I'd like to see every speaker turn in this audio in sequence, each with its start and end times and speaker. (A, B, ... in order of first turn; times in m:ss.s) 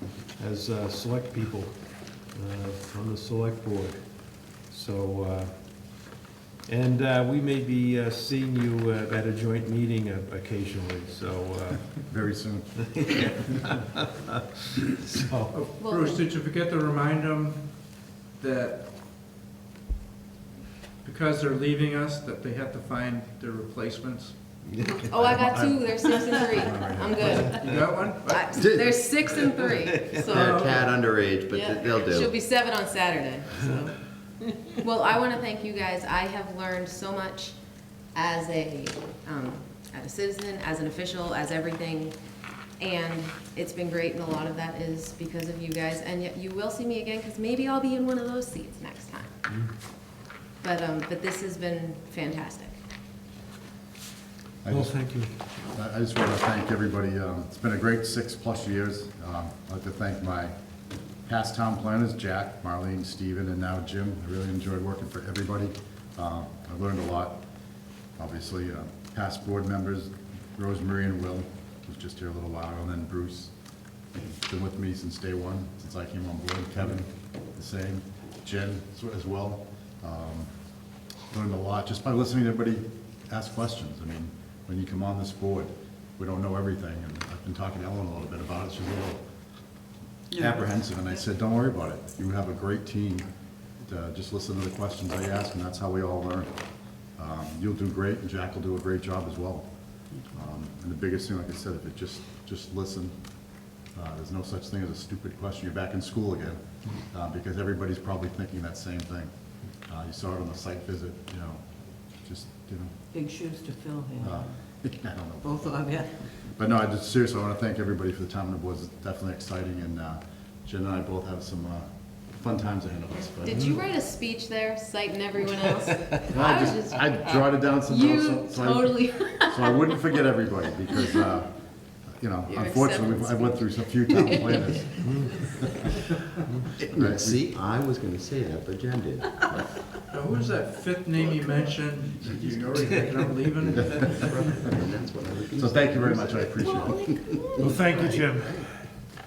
0:00.3-0:01.7 A
0:02.3-0:04.0 A
0:04.6-0:05.5 A
0:06.6-0:12.0 A
0:12.0-0:13.5 B
0:13.0-0:14.2 A
0:14.8-0:15.5 A
0:15.5-0:18.8 C
0:15.8-0:16.2 D
0:21.0-0:24.6 C
0:24.8-0:25.0 E
0:25.1-0:31.0 D
0:25.2-0:25.9 B
0:26.5-0:27.5 B
0:27.4-0:29.6 C
0:28.6-0:29.0 E
0:30.1-0:32.4 E
0:30.3-0:30.8 C
0:31.5-0:34.1 D
0:34.7-0:37.5 D
0:38.1-0:42.1 D
0:42.8-0:49.3 D
0:50.6-0:52.8 D
0:54.6-0:55.0 B
0:54.7-0:55.3 A
0:55.7-1:00.5 B
1:01.3-1:07.4 B
1:08.2-1:13.5 B
1:14.1-1:20.5 B
1:21.3-1:29.2 B
1:30.3-1:30.7 F
1:30.4-1:33.2 B
1:33.8-1:36.5 B
1:37.2-1:39.6 B
1:40.3-1:43.1 B
1:43.9-1:49.3 B
1:49.9-1:51.6 B
1:52.2-1:52.9 B
1:53.1-1:54.5 F
1:54.2-2:03.8 B
1:55.4-1:56.1 F
2:03.4-2:10.0 D
2:06.2-2:11.5 B
2:12.2-2:15.6 B
2:12.5-2:14.8 D
2:15.0-2:15.4 A
2:16.8-2:19.7 E
2:16.9-2:17.4 B
2:20.1-2:24.7 C
2:23.7-2:27.8 E
2:25.5-2:27.1 B
2:26.6-2:28.2 D
2:27.6-2:28.7 A